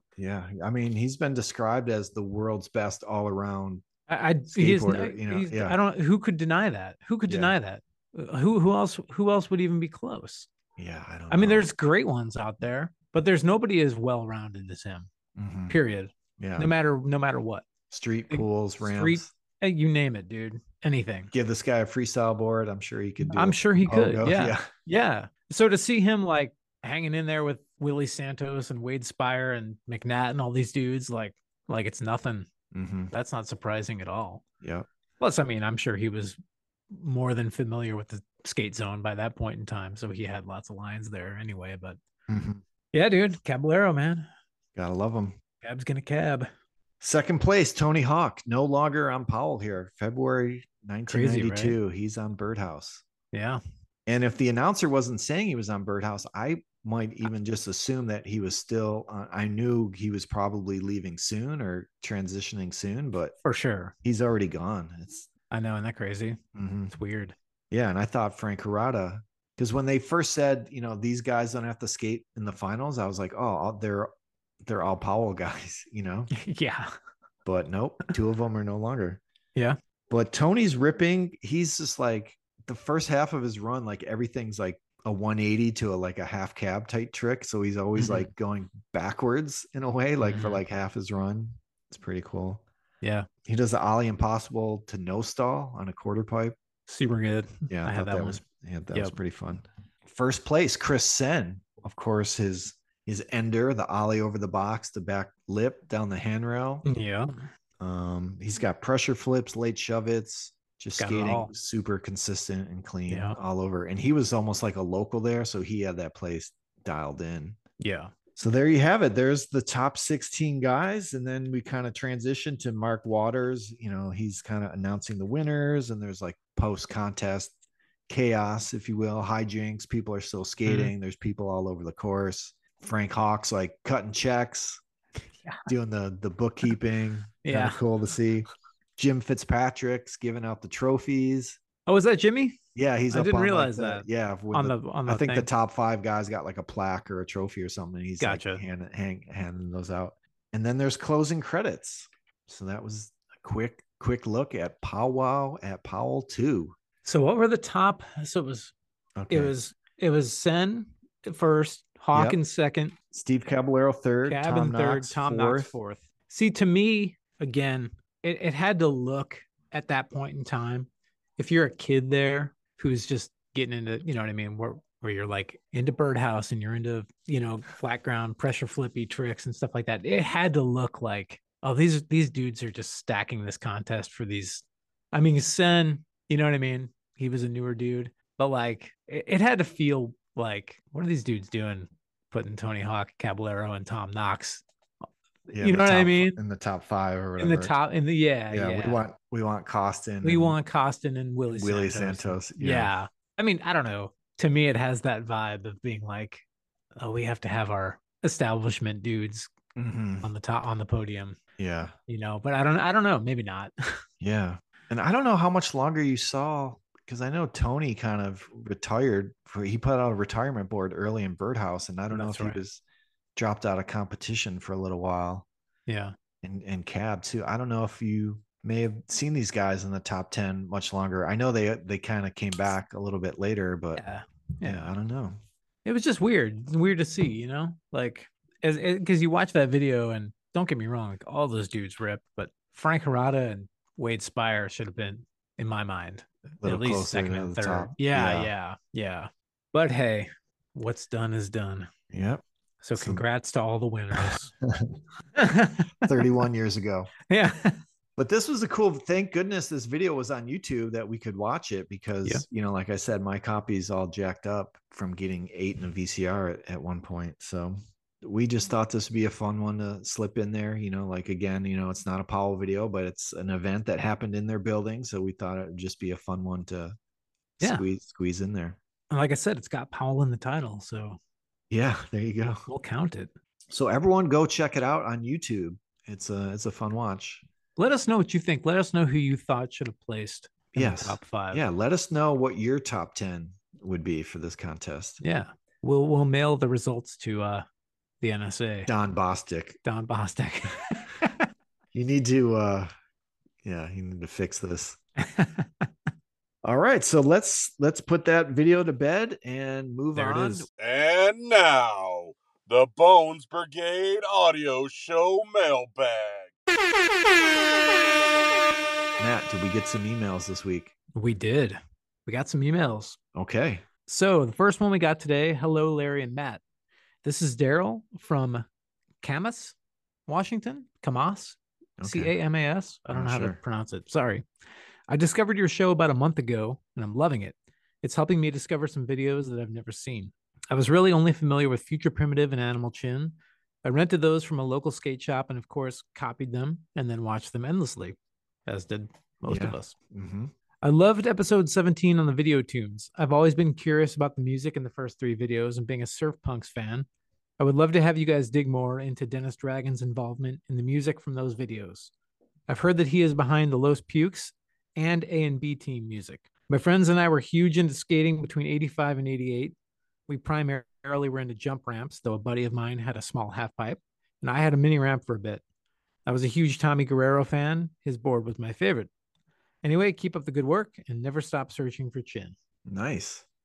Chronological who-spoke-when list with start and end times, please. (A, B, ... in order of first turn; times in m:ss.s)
0:00.2-0:03.8 A
0:04.1-0:10.5 B
0:04.5-0:05.8 A
0:07.3-0:07.5 A
0:10.8-0:11.7 A
0:11.3-0:15.1 B
0:15.4-0:15.8 A
0:15.7-0:17.7 B
0:16.4-0:16.7 A
0:17.9-0:19.3 A
0:18.3-0:21.3 B
0:21.3-0:24.7 A
0:23.3-0:32.5 B
0:32.7-0:33.1 A
0:33.1-0:34.4 B
0:34.6-0:34.9 A
0:35.2-0:36.4 B
0:36.9-0:42.0 B
0:42.3-0:42.6 A
0:42.9-0:44.3 B
0:44.8-0:45.4 A
0:45.6-0:46.5 B
0:47.0-0:53.0 A
0:51.1-0:51.8 B
0:53.3-0:53.6 B
0:54.1-1:03.3 A
1:03.4-1:03.9 B
1:04.0-1:05.3 A
1:05.5-1:07.4 B
1:06.5-1:06.9 A
1:07.7-1:14.1 A
1:14.6-1:16.3 A
1:16.3-1:16.9 B
1:17.4-1:19.2 A
1:20.1-1:32.6 A
1:28.0-1:28.3 B
1:30.2-1:30.6 B
1:33.0-1:33.3 B
1:33.4-1:36.6 A
1:36.9-1:38.4 B
1:37.7-1:46.8 A
1:46.8-1:47.4 B
1:47.8-1:57.6 A
1:51.0-1:51.5 B
1:53.1-1:53.4 B
1:57.8-1:58.1 B
1:58.4-2:07.5 A
2:08.1-2:14.8 A
2:10.6-2:10.9 B
2:15.7-2:21.6 A
2:17.4-2:17.8 B
2:21.8-2:22.6 B
2:22.7-2:36.8 A
2:23.1-2:25.5 B
2:28.2-2:28.6 B
2:37.0-2:38.7 B
2:39.2-2:39.5 A
2:39.3-2:42.9 B
2:42.1-2:42.4 A
2:43.1-2:45.7 A
2:44.2-3:14.6 B
3:15.5-3:17.8 A
3:15.6-3:16.4 B
3:17.4-3:19.0 B
3:18.5-3:20.6 A
3:20.2-3:26.4 B
3:21.5-3:22.9 A
3:27.0-3:29.5 B
3:29.8-3:30.3 A
3:30.2-3:31.4 B
3:31.6-3:31.9 A
3:32.1-3:34.0 B
3:34.2-3:42.8 A
3:42.1-3:42.6 B
3:43.4-3:45.4 A
3:45.9-3:46.1 B
3:46.4-3:54.0 A
3:53.9-3:54.9 B
3:54.6-3:55.4 A
3:55.8-4:11.9 B
4:06.6-4:08.5 A
4:12.1-4:12.4 A
4:12.8-4:14.5 B
4:12.9-4:13.2 A
4:14.1-4:14.9 A
4:15.3-4:16.2 B
4:16.0-4:17.1 A
4:17.3-4:17.8 B
4:18.2-4:36.9 A
4:37.6-4:38.8 A
4:39.1-4:41.2 B
4:41.7-4:42.6 A
4:42.7-4:43.3 B
4:43.7-4:47.4 A
4:47.8-4:51.6 B
4:50.7-4:55.2 A
4:55.2-4:57.6 B
4:58.2-4:58.9 B
4:58.9-4:59.8 A
4:59.8-5:01.5 B
5:01.9-5:02.9 A
5:03.6-5:05.0 A
5:05.2-5:05.9 B
5:06.6-5:10.7 A
5:10.1-5:10.6 B
5:10.8-5:16.5 C
5:19.2-5:20.9 A
5:21.1-5:23.2 B
5:23.3-5:23.8 A
5:24.1-5:26.6 B
5:27.2-5:28.6 B
5:29.2-5:29.8 B
5:30.3-5:34.4 B
5:32.0-5:32.3 A
5:33.1-5:33.6 A
5:35.1-5:49.9 B
5:49.5-5:50.5 A
5:50.8-5:57.1 B
5:57.6-6:02.1 B
6:02.7-6:09.7 B
6:10.3-6:15.6 B
6:16.2-6:19.1 B
6:19.8-6:22.6 B
6:22.8-6:23.4 A